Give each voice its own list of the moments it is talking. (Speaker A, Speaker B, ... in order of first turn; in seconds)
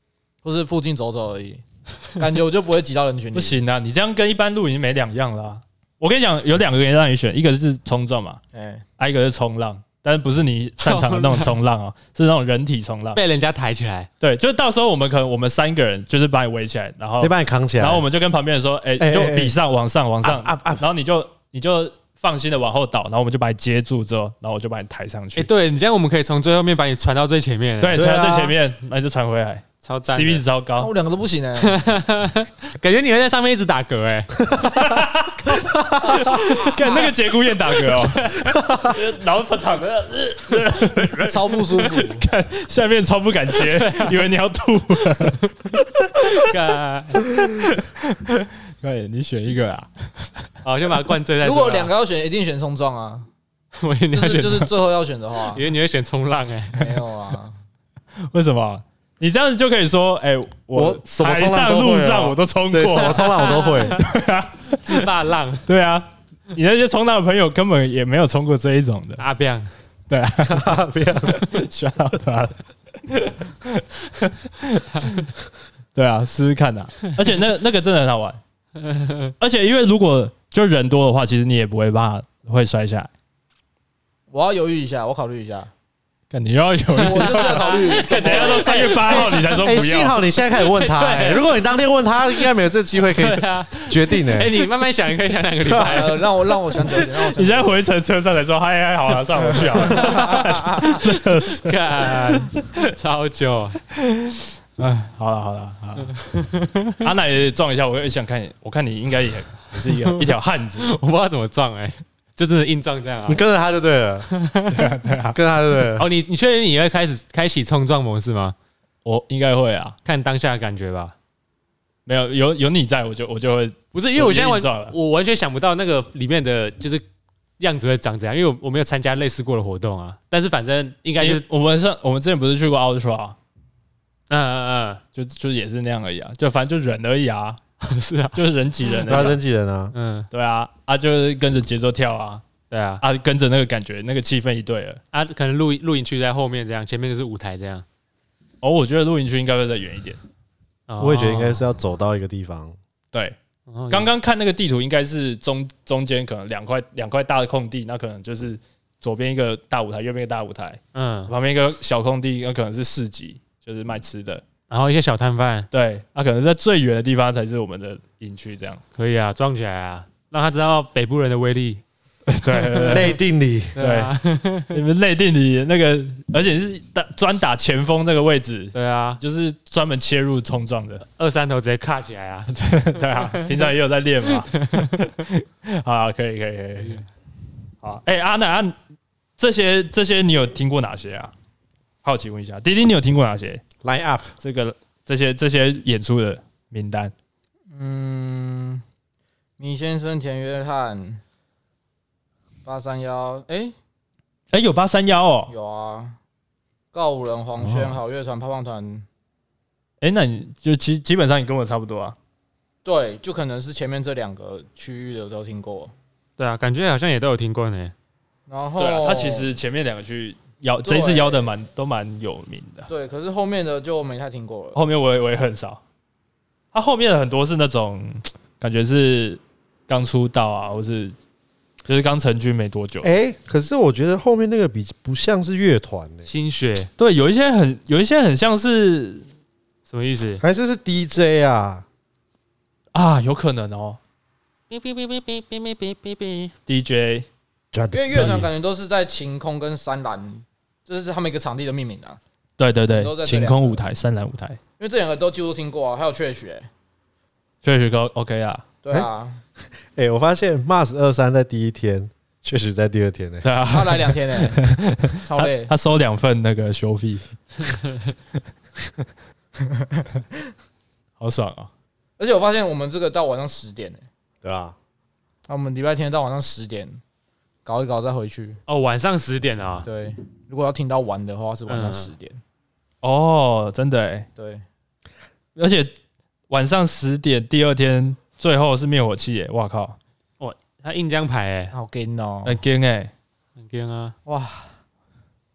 Speaker A: 0.4-3.6, 8.5-8.8, 30.8-31.8, 41.2-42.3, 51.4-53.3, 54.1-55.6, 56.8-57.5, 84.3-85.7, 87.0-89.3, 95.6-97.7, 197.7-198.8, 199.6-201.2, 202.7-203.8, 205.5-206.2, 206.9-209.1, 212.8-215.9, 218.5-219.5, 220.8-221.5, 222.9-224.8, 247.9-252.2, 252.9-253.8, 254.8-256.7, 258.8-259.4, 263.7-264.6, 265.2-265.7, 272.2-274.0, 275.5-277.0, 277.6-278.6, 279.9-282.4, 284.4-284.6, 291.7-292.6, 294.3-294.7
Speaker B: 3.3-8.4, 9.0-13.2, 14.2-25.5, 27.8-30.9, 34.5-46.4, 47.3-50.5, 58.2-65.1, 65.7-69.2, 70.1-75.3, 76.0-78.4, 79.4-83.1, 86.3-90.2, 97.3-102.7, 104.0-106.2, 107.0-110.9, 114.7-115.4, 119.0-120.0, 122.1-125.0, 131.2-133.4, 135.2-137.6, 138.3-139.4, 140.3-142.4, 143.0-145.0, 148.6-150.2, 153.9-164.4, 165.7-168.8, 172.3-173.2, 173.8-174.2, 174.7-181.0, 182.6-187.1, 187.8-188.8, 189.4-191.3, 192.0-193.6, 194.4-197.1, 204.5-205.5, 210.0-212.2, 218.8-222.9, 224.7-225.8, 226.7-231.2, 231.9-233.1, 237.0-239.3, 242.9-244.0, 246.7-247.3, 252.6-254.6, 257.6-258.6, 263.4-267.9, 271.2-271.7, 283.0-284.3, 285.6-285.9, 286.5-290.0, 292.4-293.1
Speaker C: 10.8-11.6, 13.2-14.1, 25.4-28.0, 29.8-30.4, 31.6-34.4, 36.1-37.1, 37.7-38.5, 43.6-44.2, 46.3-47.3, 50.6-51.9, 53.8-54.7, 55.5-57.0, 62.9-64.0, 64.7-65.6, 69.2-69.7, 78.8-79.3, 87.0-89.8, 90.5-91.6, 93.0-96.3, 99.9-100.4, 101.6-103.8, 106.1-107.0, 109.8-113.4, 114.3-114.9, 116.0-118.5, 120.0-121.2, 123.9-127.0, 127.6-131.4, 134.3-135.0, 137.8-139.4, 139.9-140.3, 142.7-143.0, 145.1-147.8, 150.9-151.7, 153.7-154.1, 160.9-161.3, 164.7-165.7, 168.9-171.8, 172.8-173.0, 173.8-174.8, 178.7-179.2, 181.2-182.5, 183.1-183.7, 184.5-185.1, 207.6-207.9, 216.4-217.9, 236.3-236.9, 239.9-240.4, 244.7-246.5, 278.7-279.9, 281.7-282.1, 290.4-291.7, 293.6-294.1
Speaker D: 17.2-18.1, 19.0-19.6, 20.2-20.8, 27.9-28.6, 38.6-38.9, 60.7-64.0, 70.4-71.5, 89.3-94.6, 113.3-114.3, 115.3-116.1, 139.1-139.9, 151.0-152.8, 172.9-173.8, 193.8-194.3, 233.0-236.3, 240.4-241.8, 247.7-248.5, 259.8-263.5, 274.4-274.8